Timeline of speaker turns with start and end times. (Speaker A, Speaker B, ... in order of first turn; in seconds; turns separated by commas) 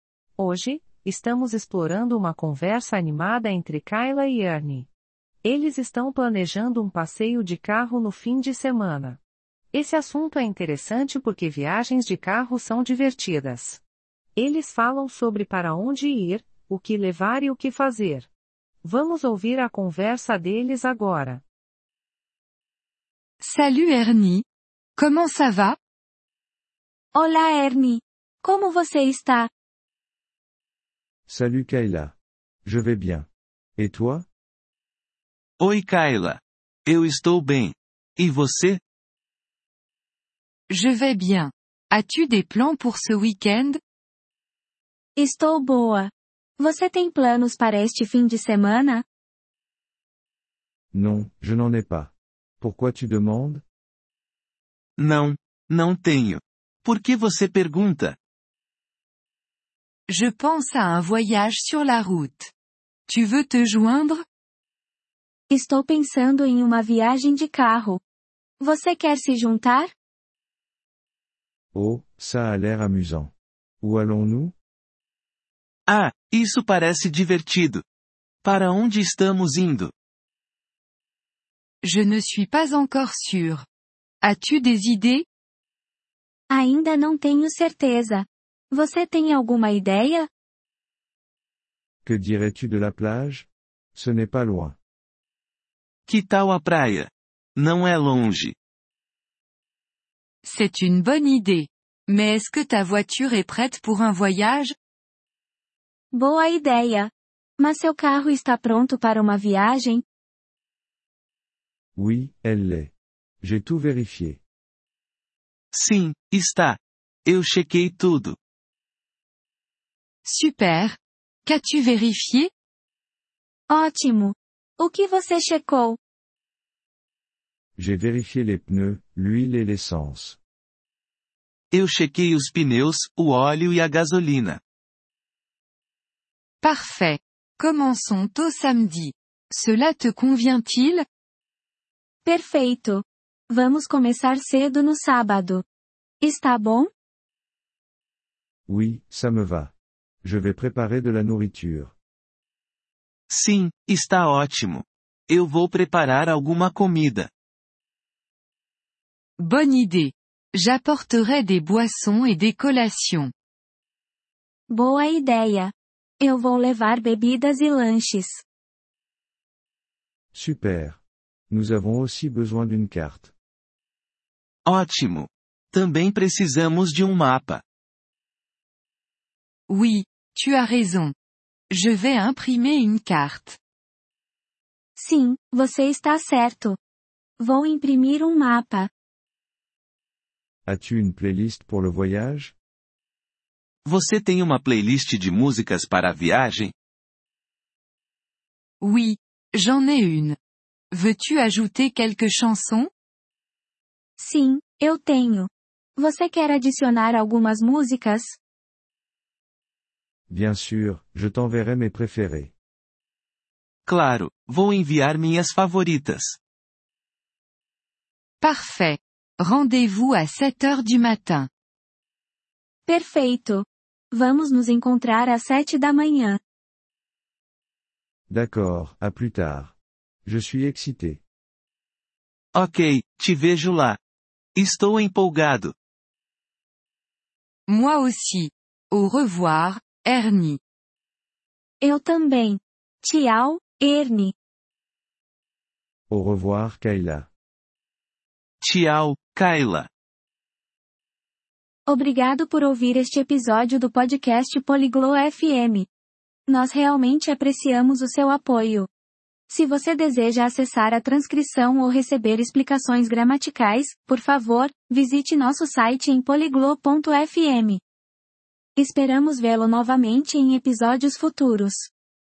Speaker A: 0.4-4.9, Speaker A: 5.4-9.2, Speaker A: 9.7-13.8, Speaker A: 14.4-18.3, Speaker A: 18.8-21.4, Speaker B: 23.4-24.4, Speaker B: 25.0-25.8, Speaker C: 27.1-29.5, Speaker D: 31.3-34.3, Speaker E: 35.6-38.8, Speaker B: 40.7-43.8, Speaker C: 45.2-49.0, Speaker D: 50.9-53.6, Speaker E: 55.0-58.2, Speaker B: 60.1-62.5, Speaker B: 63.1-64.2, Speaker C: 65.5-68.0, Speaker C: 68.6-69.9, Speaker D: 71.7-74.5, Speaker E: 75.9-77.8, Speaker E: 78.4-79.9, Speaker B: 81.8-83.7, Speaker B: 84.2-85.2, Speaker C: 86.5-90.3, Speaker D: 92.0-94.8, Speaker E: 96.1-98.6, Speaker B: 100.4-104.8, Speaker C: 106.1-110.0, Speaker D: 112.0-114.4, Speaker E: 115.7-118.4, Speaker B: 120.2-122.5, Speaker C: 123.7-126.0, Speaker D: 127.8-130.4, Speaker E: 131.7-134.6, Speaker B: 136.6-141.1, Speaker C: 142.2-145.7, Speaker C: 146.2-146.9, Speaker D: 148.7-151.9, Speaker E: 153.3-157.3, Speaker B: 159.4-163.3, Speaker C: 164.7-168.4, Speaker D: 170.3-173.3, Speaker E: 174.7-177.6, Speaker B: 179.7-181.1, Speaker B: 181.7-183.6, Speaker C: 185.0-186.8, Speaker C: 187.4-188.9, Speaker D: 190.7-192.5, Speaker E: 193.8-196.7, Speaker B: 198.8-200.4, Speaker B: 200.9-202.9, Speaker C: 204.2-208.4, Speaker D: 210.3-212.5, Speaker E: 213.9-216.4, Speaker B: 218.4-221.5, Speaker C: 222.9-226.4, Speaker D: 228.3-231.2, Speaker E: 232.6-234.0, Speaker E: 234.6-235.8, Speaker B: 237.7-240.6, Speaker C: 241.8-244.3, Speaker D: 246.1-247.3, Speaker E: 248.6-249.9, Speaker C: 251.9-255.9, Speaker C: 256.5-258.9, Speaker C: 259.5-267.8, Speaker C: 268.8-271.9